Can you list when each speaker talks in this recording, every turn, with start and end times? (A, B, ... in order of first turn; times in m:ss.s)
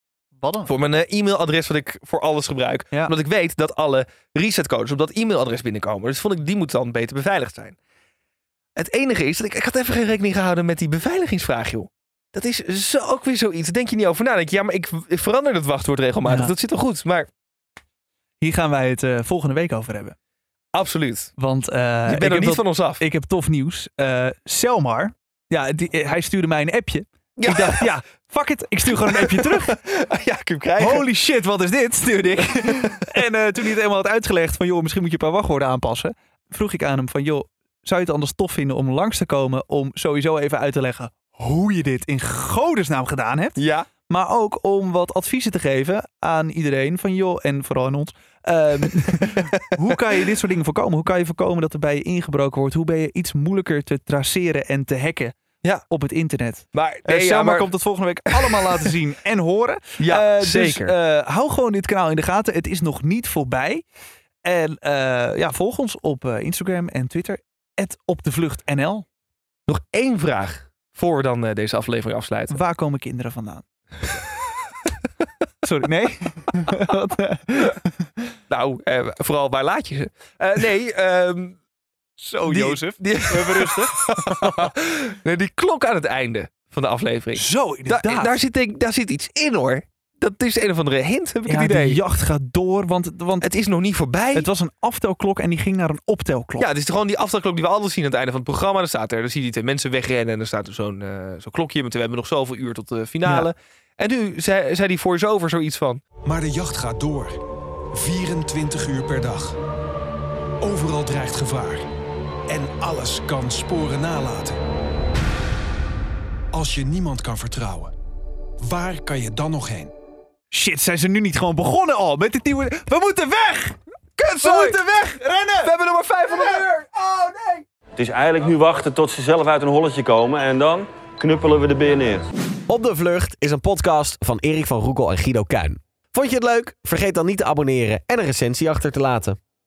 0:00.4-0:00.7 A
0:00.6-0:07.8 B
0:08.8-0:17.3 B
0:16.2-0:16.5 A
0:18.4-0:20.2 A
0:20.7-0:21.3 B
0:21.4-0:29.8 A
0:22.1-0:23.0 B
0:27.4-0:27.9 B
0:28.9-0:31.0 B
0:30.8-0:55.4 A
0:32.6-0:33.2 B
0:43.6-0:43.9 B
0:48.8-0:49.4 B
0:55.9-1:03.8 A
0:56.7-0:57.7 B
0:58.3-0:58.7 B
1:00.0-1:00.9 B
1:04.4-1:09.0 A
1:09.7-1:12.6 B
1:12.5-1:13.6 A
1:15.6-1:18.1 A
1:18.5-1:21.6 B
1:22.2-1:24.7 A
1:22.4-1:32.0 B
1:27.4-1:28.4 A
1:31.5-1:33.5 A
1:33.4-1:34.5 B
1:34.3-1:36.7 A
1:36.6-1:46.0 B
1:46.2-1:47.4 C
1:47.9-1:49.6 C
1:50.6-1:51.8 C
1:52.5-1:54.6 C
1:56.5-1:57.9 C
1:58.6-1:59.9 C
2:00.5-2:03.8 A
2:04.2-2:04.8 B
2:04.4-2:05.7 A
2:05.6-2:07.6 B
2:08.0-2:12.3 D
2:12.7-2:19.4 E